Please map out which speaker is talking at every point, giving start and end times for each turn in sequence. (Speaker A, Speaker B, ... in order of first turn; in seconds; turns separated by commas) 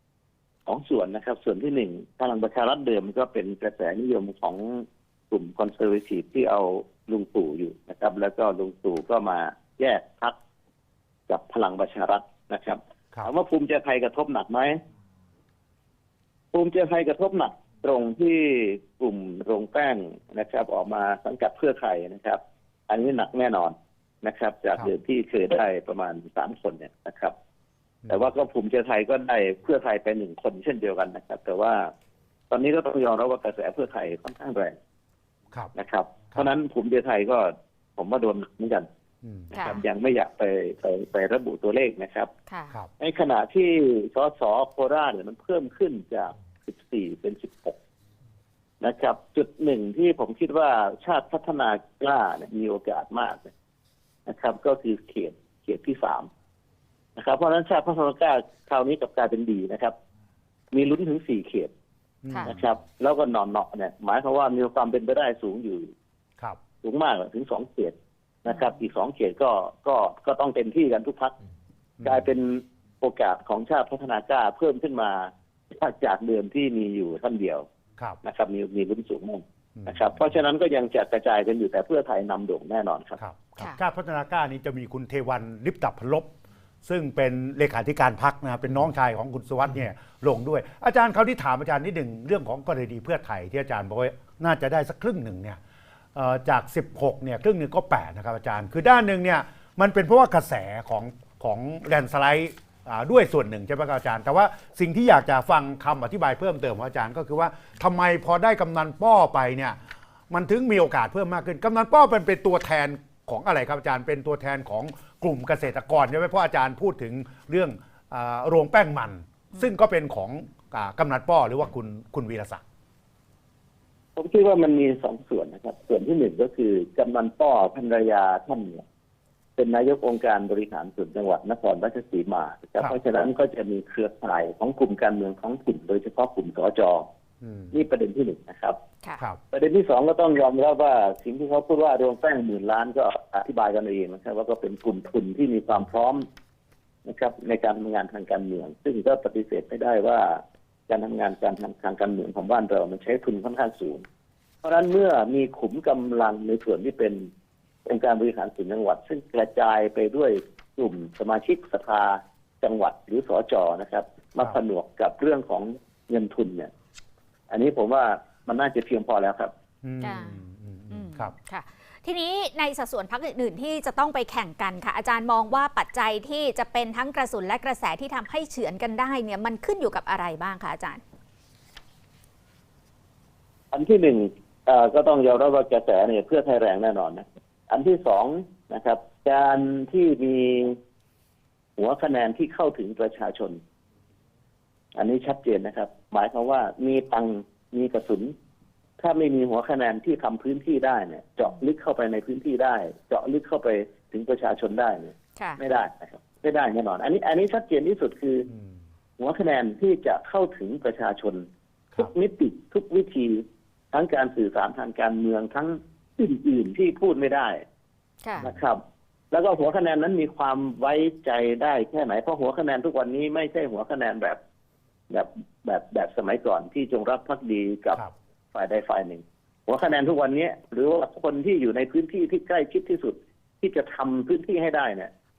Speaker A: 0.7-10.3, Speaker A: 11.3-14.8, Speaker A: 16.5-27.3, Speaker A: 28.1-31.9, Speaker A: 32.5-34.8, Speaker A: 35.7-38.9, Speaker B: 39.2-39.5, Speaker A: 39.5-42.3, Speaker C: 39.5-39.8, Speaker C: 42.5-42.7, Speaker A: 43.0-47.8, Speaker A: 48.8-53.5, Speaker A: 54.2-56.3, Speaker A: 57.1-59.9, Speaker A: 60.7-61.7, Speaker B: 62.2-62.5, Speaker C: 62.3-62.5, Speaker A: 62.4-65.9, Speaker A: 66.8-71.3, Speaker B: 72.0-72.2, Speaker A: 72.0-77.7, Speaker A: 78.2-83.2, Speaker B: 83.2-86.3, Speaker B: 86.8-95.6, Speaker B: 96.1-109.8, Speaker B: 110.3-122.6, Speaker A: 124.2-128.8, Speaker A: 129.6-137.1, Speaker B: 137.4-137.8, Speaker A: 137.7-138.8, Speaker A: 139.5-146.2, Speaker A: 147.0-154.0, Speaker A: 154.6-157.3, Speaker A: 157.8-166.7, Speaker A: 167.5-169.5, Speaker B: 169.8-171.3, Speaker C: 170.0-181.0, Speaker A: 183.7-190.8, Speaker A: 191.8-193.6, Speaker A: 194.9-198.3, Speaker A: 199.0-208.5, Speaker B: 208.5-208.8, Speaker A: 209.2-211.4, Speaker A: 212.0-217.6, Speaker A: 218.4-218.8, Speaker A: 219.3-224.4, Speaker A: 225.1-228.0, Speaker A: 228.5-235.1